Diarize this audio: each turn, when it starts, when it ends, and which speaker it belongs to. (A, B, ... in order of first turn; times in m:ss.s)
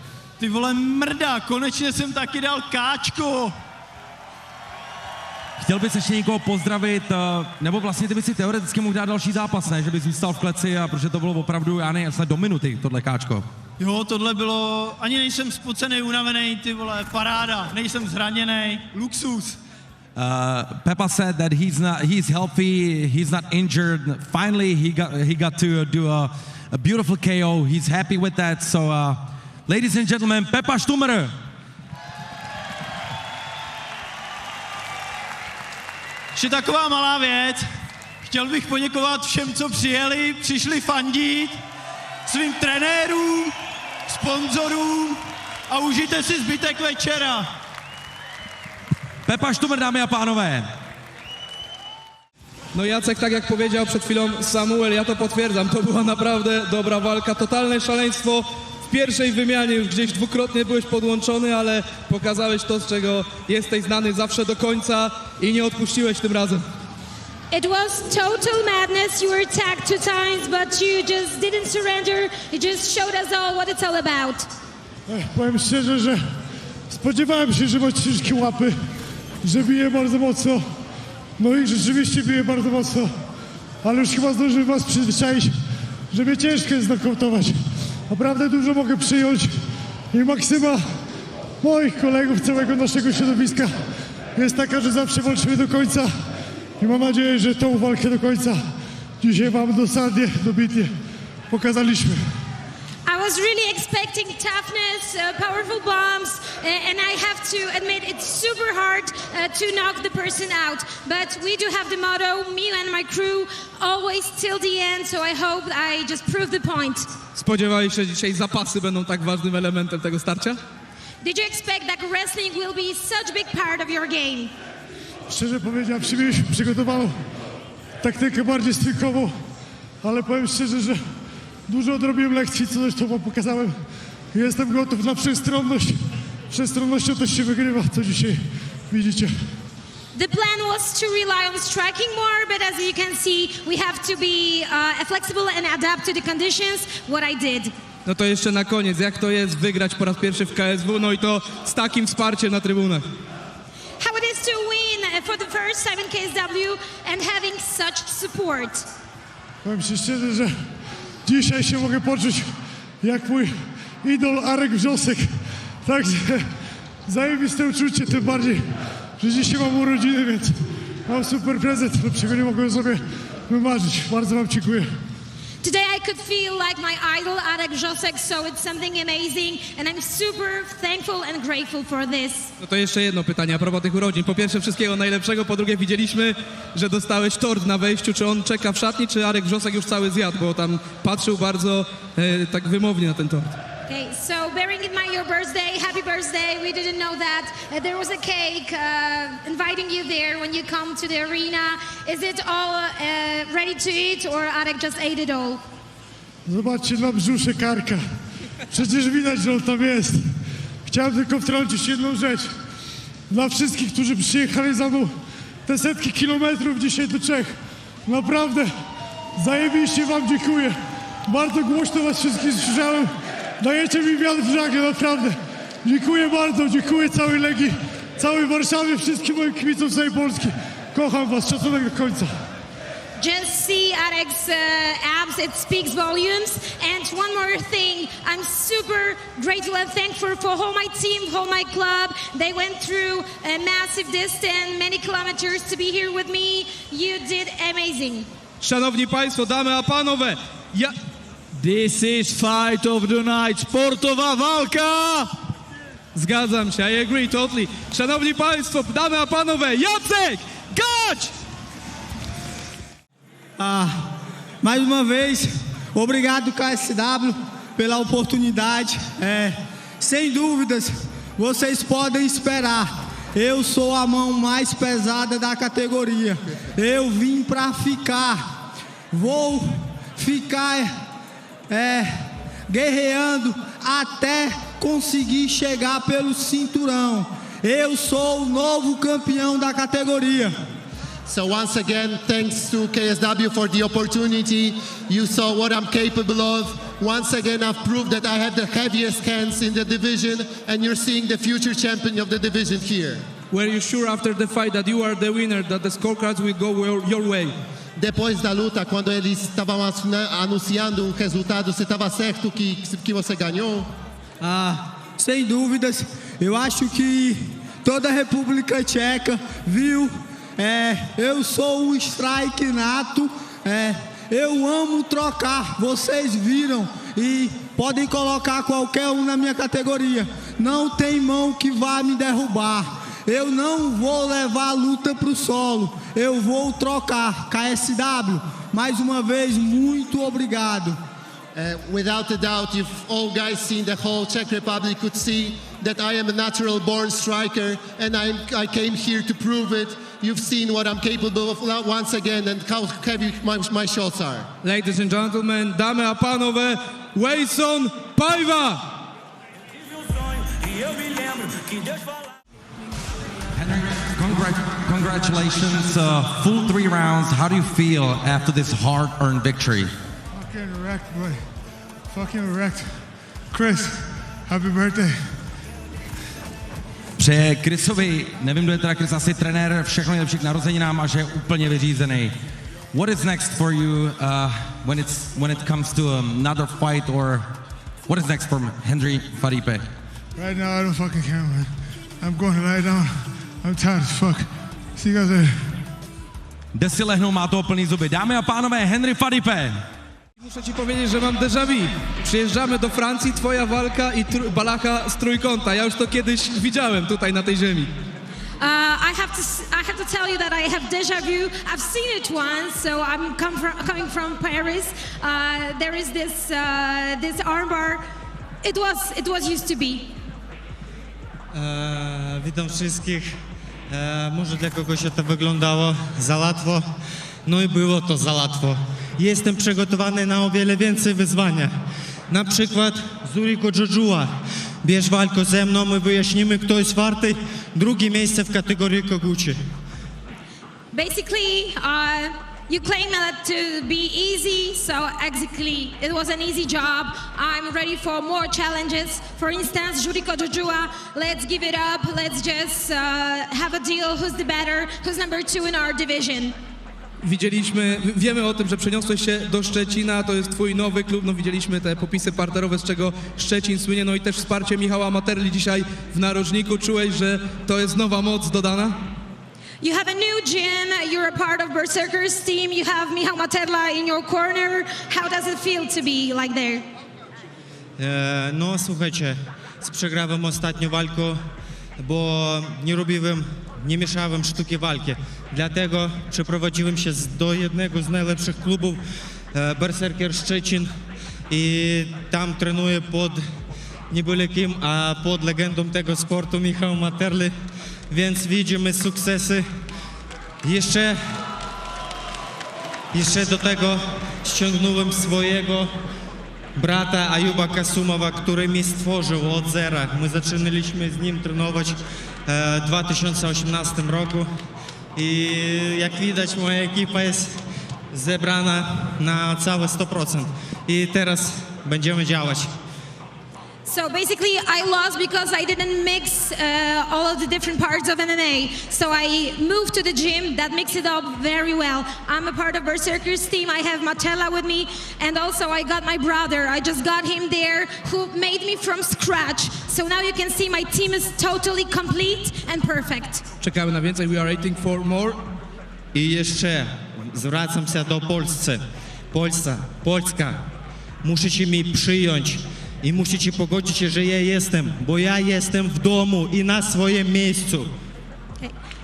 0:00.4-0:03.5 A
0:05.6-0:13.5 B
0:13.8-0:19.6 A
0:20.2-0:31.3 B
0:36.3-0:37.6 A
0:38.2-0:41.6 A
0:42.2-0:43.5 A
0:44.0-0:47.5 A
0:49.2-0:50.7 B
0:52.7-1:06.6 C
1:07.5-1:14.5 D
1:15.1-1:16.2 E
1:16.9-1:18.8 E
1:19.4-1:20.7 E
1:21.4-1:23.1 E
1:23.8-1:25.6 E
1:26.1-1:29.5 E
1:30.1-1:30.8 E
1:31.6-1:36.1 E
1:36.8-1:38.6 E
1:39.2-1:40.9 E
1:41.5-1:42.2 E
1:43.0-1:57.1 D
1:57.4-2:00.6 C
2:01.2-2:04.5 D
2:05.3-2:07.2 E
2:08.0-2:09.4 E
2:10.0-2:11.0 E
2:11.7-2:19.5 E
2:20.1-2:27.7 D
2:28.0-2:33.0 C
2:34.0-2:38.9 D
2:39.6-2:40.6 E
2:41.2-2:46.5 E
2:47.0-2:48.6 E
2:49.2-2:54.9 E
2:55.6-3:02.5 D
3:02.6-3:13.6 C
3:13.9-3:25.6 D
3:26.4-3:28.0 E
3:28.7-3:32.5 E
3:33.3-3:35.1 E
3:35.6-3:38.7 E
3:39.3-3:52.3 E
3:53.2-4:08.3 D
4:08.6-4:10.9 C
4:11.6-4:15.3 A
4:16.1-4:21.3 C
4:23.6-4:24.0 F
4:24.6-4:38.5 F
4:39.1-4:40.9 F
4:41.7-4:50.5 F
4:51.2-5:03.2 G
5:03.5-5:07.6 C
5:08.0-5:13.9 G
5:14.4-5:41.0 F
5:41.5-5:54.5 G
5:54.6-5:58.8 C
6:03.5-6:09.9 B
6:10.3-6:11.5 H
6:12.1-6:15.4 H
6:17.2-6:22.3 B
6:22.9-6:27.5 B
6:28.1-6:29.8 B
6:30.4-6:35.8 H
6:36.7-6:39.8 B
6:40.4-6:47.9 C
6:48.6-6:58.0 D
6:58.6-7:00.1 D
7:01.5-7:03.3 I
7:03.9-7:06.9 I
7:07.4-7:11.7 I
7:12.3-7:14.3 I
7:14.8-7:19.6 I
7:20.9-7:36.6 D
7:37.2-7:49.0 C
7:49.8-7:56.8 D
7:58.0-8:01.4 I
8:02.0-8:09.0 I
8:09.5-8:10.9 I
8:11.5-8:13.4 I
8:14.1-8:17.5 I
8:18.1-8:19.7 I
8:20.6-8:21.2 I
8:23.1-8:25.9 I
8:26.8-8:34.5 I
8:35.2-8:37.6 I
8:38.1-8:42.7 I
8:43.8-9:03.4 D
9:03.6-9:05.4 C
9:06.1-9:10.6 I
9:11.2-9:17.9 I